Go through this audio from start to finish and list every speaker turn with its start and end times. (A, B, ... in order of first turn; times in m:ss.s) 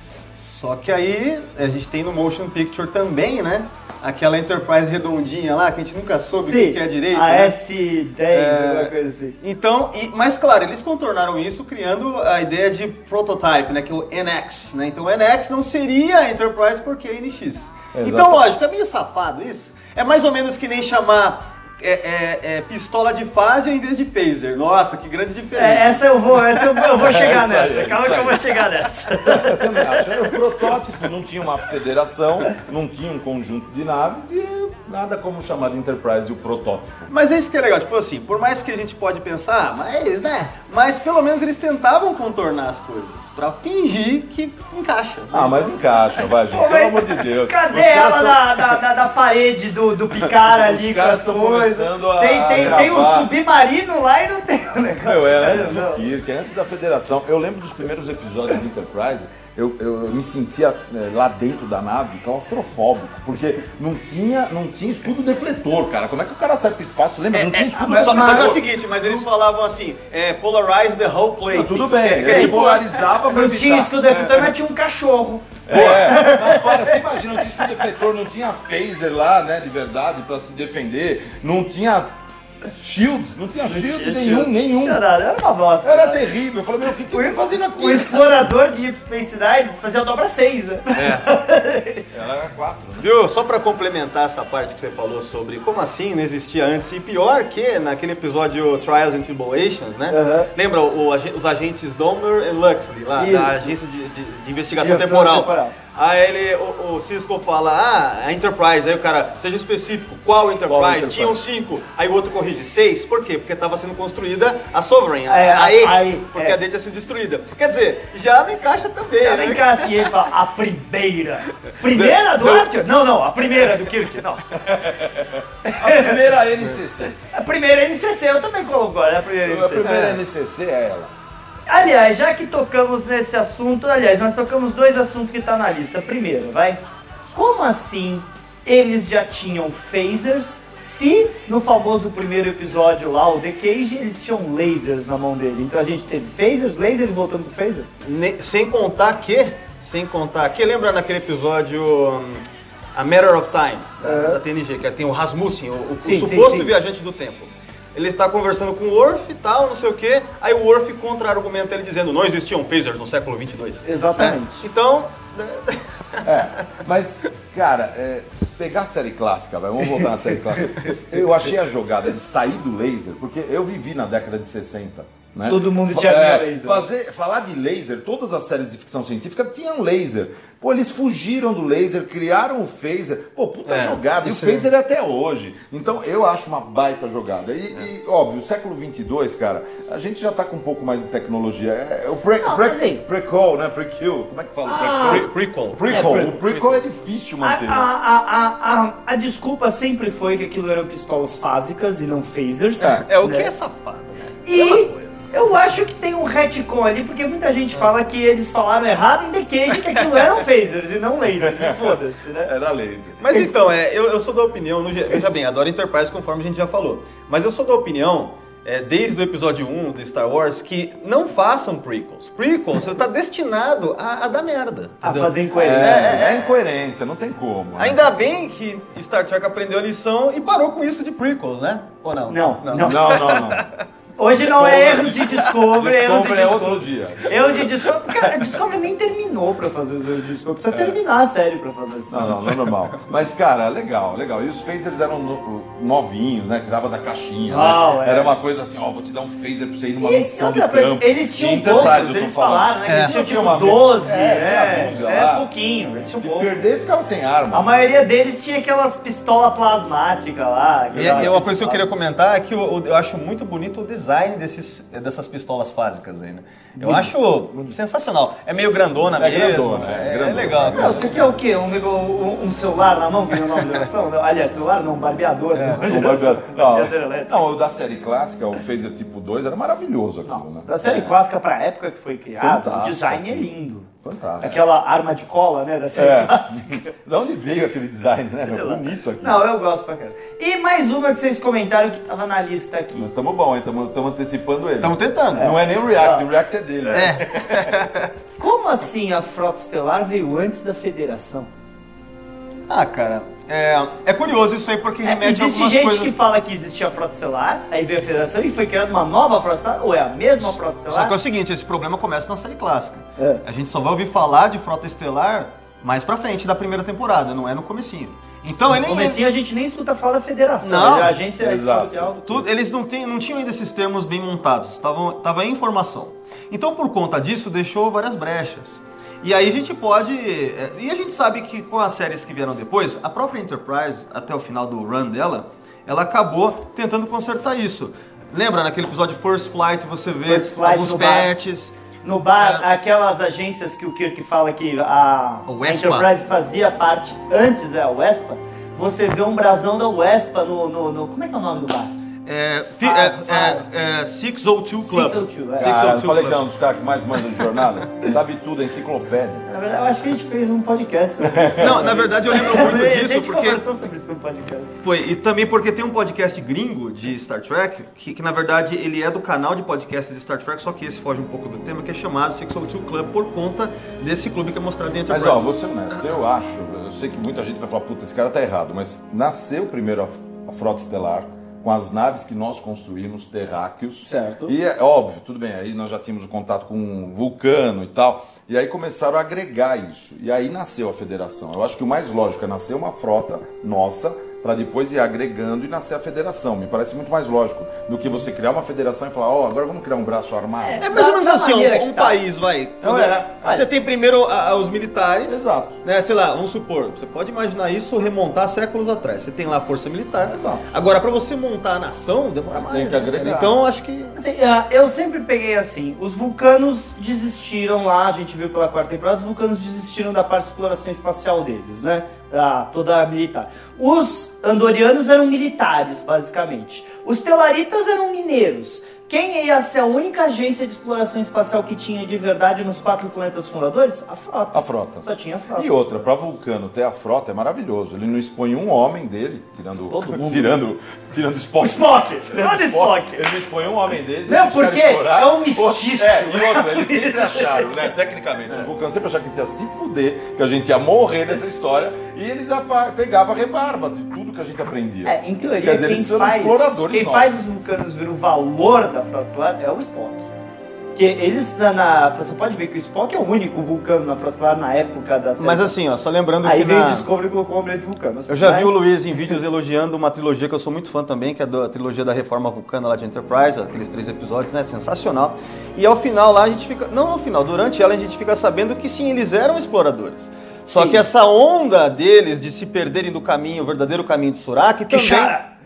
0:00.4-0:07.6 A
0:06.4-0:09.4 B
0:08.3-0:26.9 A
0:17.9-0:18.4 C
0:25.6-0:30.1 B
0:27.0-0:28.6 C
0:29.2-0:37.1 C
0:37.1-0:45.8 A
0:45.3-0:48.8 C
0:46.5-0:56.0 B
0:50.4-0:53.3 C
0:55.0-1:08.6 C
1:07.3-1:14.5 A
1:07.7-1:09.1 B
1:11.5-1:13.9 C
1:12.2-1:12.6 B
1:13.3-1:17.0 B
1:15.7-1:25.0 C
1:23.7-1:26.3 B
1:25.8-1:28.3 C
1:27.1-1:32.1 B
1:31.0-1:31.3 A
1:32.1-1:33.1 C
1:33.0-2:00.2 A
1:40.1-1:40.5 B
1:43.2-1:43.7 B
1:44.8-1:45.8 B
1:50.7-1:51.4 C
1:55.3-1:56.6 B
1:59.2-2:04.5 B
2:01.9-2:02.7 A
2:04.7-2:07.2 C
2:05.7-2:06.2 B
2:07.3-2:10.2 B
2:09.4-2:11.1 C
2:09.8-2:10.2 A
2:11.7-2:16.8 B
2:17.3-2:27.9 B
2:28.0-2:32.4 A
2:33.0-2:46.7 A
2:34.0-2:34.4 B
2:36.0-2:36.7 B
2:43.8-2:44.6 B
2:46.2-3:17.9 C
2:55.5-2:56.9 B
3:03.7-3:04.7 A
3:12.4-3:13.0 B
3:14.6-3:15.2 B
3:14.8-3:16.8 A
3:15.9-3:16.4 B
3:17.4-3:23.5 B
3:22.8-3:23.0 C
3:22.8-3:25.2 A
3:24.5-3:32.5 B
3:30.0-3:30.3 A
3:31.4-3:33.2 C
3:33.2-3:46.6 A
3:45.0-3:46.2 B
3:45.6-3:48.1 C
3:47.8-3:53.7 A
3:52.3-3:53.5 B
3:52.8-3:53.6 C
3:54.2-4:02.4 B
3:54.3-3:57.7 C
4:02.1-4:15.5 C
4:07.5-4:08.3 B
4:10.0-4:16.6 B
4:12.9-4:13.8 A
4:16.2-4:17.7 C
4:17.5-4:21.9 B
4:20.9-4:21.4 C
4:21.0-4:31.3 A
4:29.2-4:31.3 C
4:30.7-4:37.3 B
4:35.5-4:35.9 A
4:35.9-4:41.1 C
4:40.3-4:43.9 B
4:42.4-4:43.5 C
4:44.0-4:44.6 C
4:44.4-4:46.9 B
4:46.0-4:49.4 C
4:48.5-4:53.1 B
4:53.0-4:57.8 C
4:54.8-4:55.6 A
4:55.4-4:56.2 B
4:56.9-4:58.1 A
4:58.4-5:01.5 B
5:02.7-5:06.2 A
5:05.0-5:11.2 B
5:10.5-5:19.2 A
5:18.7-5:22.2 B
5:20.6-5:21.2 A
5:21.4-5:22.5 C
5:22.2-5:41.7 A
5:40.3-5:41.3 B
5:42.0-5:51.9 B
5:42.4-5:42.7 A
5:45.5-5:46.1 A
5:52.3-5:56.4 A
5:52.8-5:53.6 B
5:54.8-5:55.7 B
5:55.6-5:59.4 C
5:59.5-6:04.8 B
6:01.2-6:01.9 C
6:01.6-6:03.6 A
6:04.8-6:15.5 A
6:15.1-6:40.8 C
6:24.1-6:24.6 B
6:40.6-6:42.2 B
6:40.8-6:54.2 A
6:42.8-6:43.6 B
6:45.3-6:45.8 C
6:50.3-6:50.6 C
6:52.5-6:53.6 C
6:54.2-7:15.8 B
7:14.5-7:37.4 C
7:19.9-7:20.6 B
7:21.6-7:23.2 B
7:24.3-7:27.7 B
7:35.1-7:40.3 B
7:41.0-7:45.7 B
7:45.4-7:47.1 A
7:46.4-7:48.7 B
7:48.3-8:05.4 A
8:00.7-8:01.0 B
8:04.9-8:05.4 B